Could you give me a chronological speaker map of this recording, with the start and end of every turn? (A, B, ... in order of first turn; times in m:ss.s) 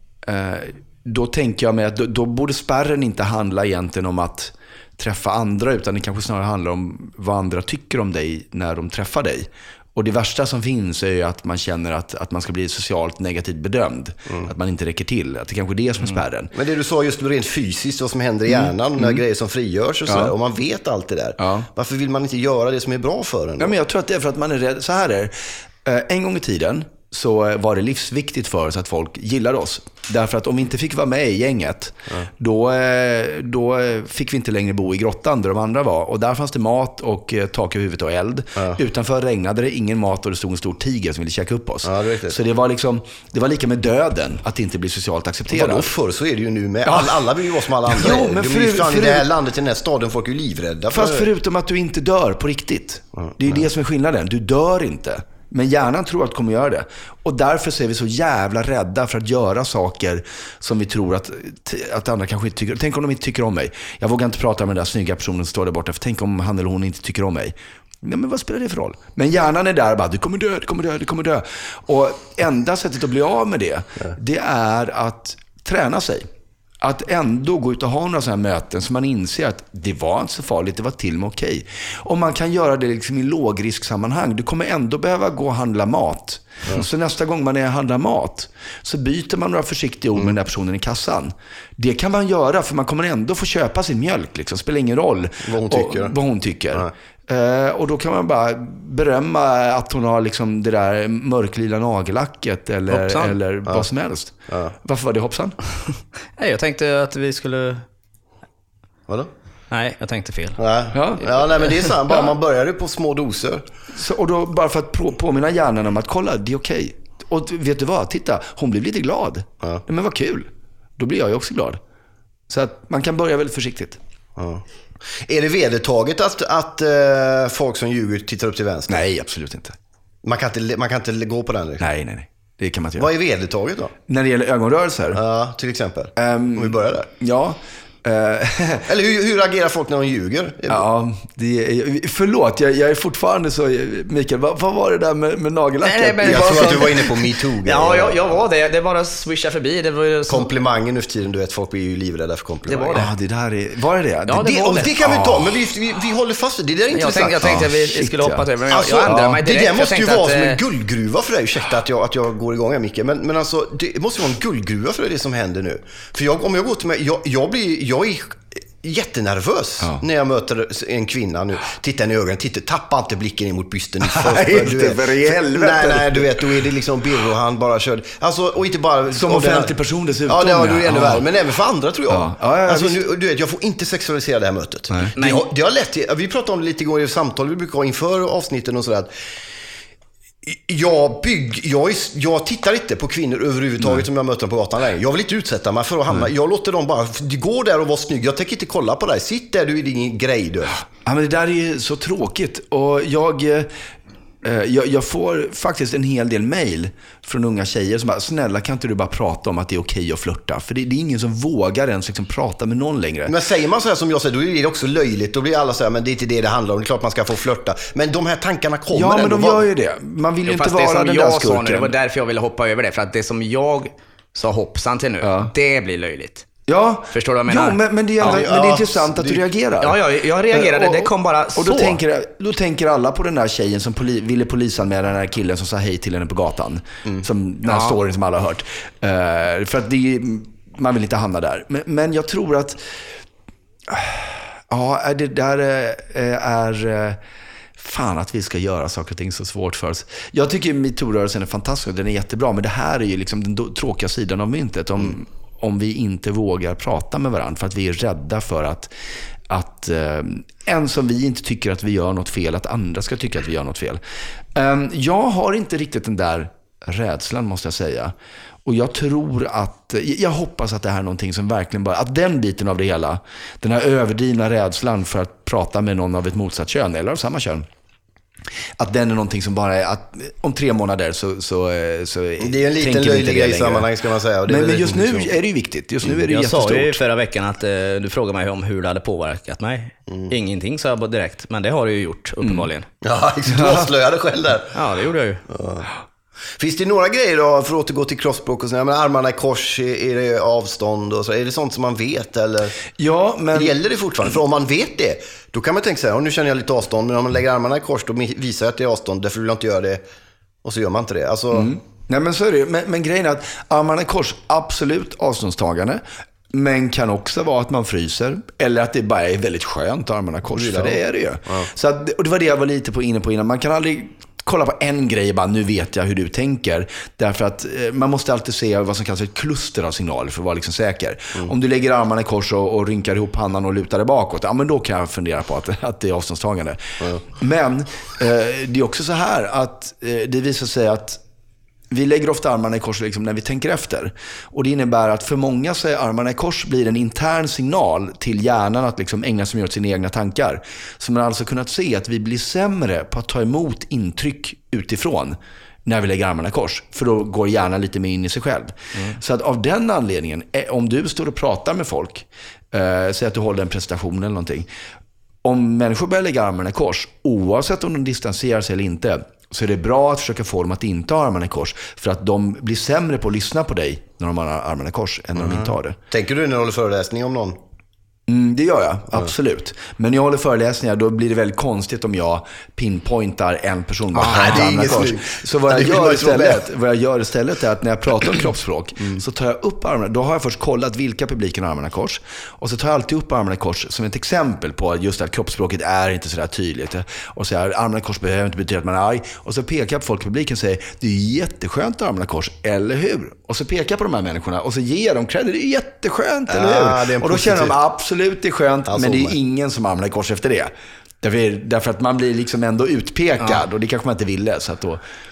0:00.2-0:16.5 A
0:16.5-0:23.7 B
0:18.5-0:19.2 A
0:20.1-0:20.3 A
0:21.4-0:21.7 A
0:23.6-0:45.9 A
0:41.8-0:42.4 B
0:45.5-0:51.3 B
0:46.8-0:47.2 A
0:47.9-0:49.3 A
0:50.9-1:16.2 A
1:16.8-1:45.6 A
1:35.4-1:36.2 B
1:42.9-1:43.4 C
1:44.5-1:44.7 B
1:46.4-1:47.8 C
1:49.7-1:50.6 C
1:50.6-1:53.6 B
1:50.9-1:51.2 A
1:53.9-2:01.8 A
2:02.5-2:04.0 A
2:04.4-2:04.6 B
2:05.2-2:09.0 B
2:08.9-2:09.8 A
2:10.2-2:11.8 B
2:11.8-2:13.1 A
2:13.0-2:13.9 B
2:14.1-2:15.2 A
2:15.1-2:17.1 B
2:16.2-2:18.9 A
2:18.9-2:20.8 B
2:20.7-2:26.9 A
2:25.8-2:30.5 C
2:26.2-2:28.4 B
2:30.3-2:33.0 B
2:32.7-2:33.1 C
2:32.9-2:35.4 A
2:34.3-2:34.9 C
2:34.4-2:37.6 B
2:36.9-2:40.6 C
2:37.4-2:38.5 A
2:38.7-3:09.1 B
2:39.0-2:39.4 A
2:54.0-2:56.4 A
2:59.1-3:01.2 A
3:02.1-3:03.0 A
3:05.2-3:05.4 C
3:10.4-3:20.8 B
3:21.0-3:23.7 A
3:24.4-3:33.3 A
3:33.3-3:39.6 B
3:38.9-3:41.9 A
3:40.5-3:46.5 C
3:45.2-3:45.5 A
3:46.7-3:50.0 A
3:47.1-3:48.4 C
3:48.2-3:49.4 B
3:49.8-3:52.0 C
3:50.5-4:02.8 A
3:57.6-3:58.0 C
4:03.9-4:07.2 A
4:07.8-4:18.9 A
4:19.5-4:24.0 A
4:24.5-4:28.1 A
4:28.6-4:37.6 A
4:38.8-4:43.9 A
4:42.4-4:45.3 B
4:44.5-4:47.0 A
4:46.3-4:52.9 C
4:53.0-4:54.8 B
4:53.5-4:53.9 A
4:54.7-4:55.4 C
4:55.5-4:55.9 B
4:56.6-5:02.8 B
5:03.0-5:03.8 A
5:03.5-5:10.0 B
5:10.6-5:11.7 B
5:11.5-5:41.2 A
5:20.5-5:21.7 B
5:41.9-6:04.7 A
6:05.4-6:16.0 A
6:15.4-6:17.6 B
6:18.3-6:55.0 A
6:24.2-6:25.0 C
6:24.2-6:26.6 B
6:46.5-6:47.8 B
6:48.9-6:49.4 B